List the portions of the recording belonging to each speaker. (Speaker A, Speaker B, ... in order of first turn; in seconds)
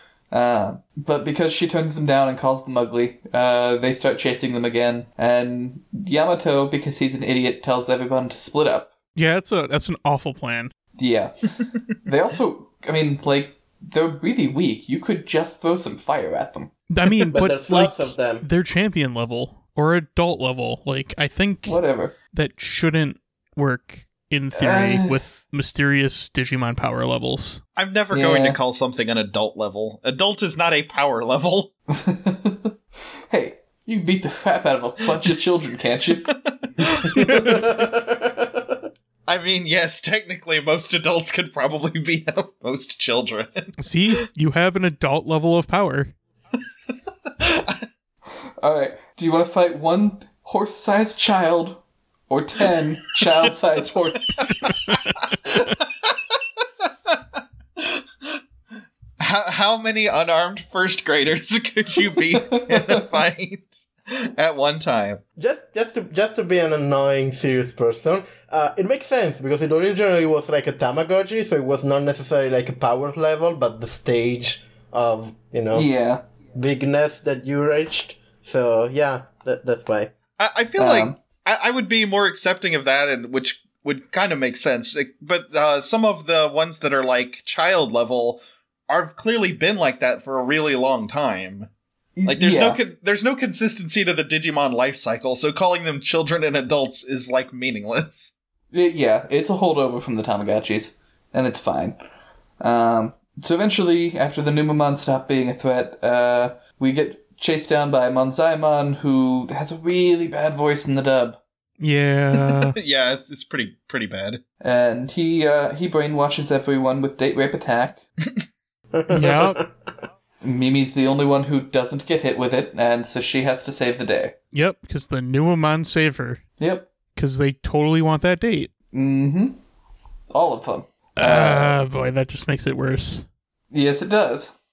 Speaker A: 0.3-8.9, 10.9-11.5, 12.0-16.7, 21.6-22.1, 24.6-25.2, 28.1-28.6, 31.9-32.8, 33.3-36.3, 48.6-54.4, 62.4-63.0, 75.7-76.2, 80.8-81.2, 92.2-92.8, 98.7-102.0, 102.6-111.4, 114.6-118.0, 120.4-124.3, 126.6-126.9, 128.9-129.6, 130.3-131.8, 133.7-134.5
Speaker B: 9.2-10.7, 16.9-27.6, 43.8-46.1, 111.8-112.8, 119.1-119.6, 124.5-126.4, 127.2-128.7, 131.2-133.3
Speaker C: 17.3-18.4, 37.1-38.8, 65.4-75.9, 76.5-80.1, 118.9-119.7
Speaker D: 27.8-31.7, 36.3-37.4, 39.3-43.8, 47.4-47.7, 54.4-55.6, 59.2-65.2, 80.4-91.7, 92.3-98.3, 112.3-114.4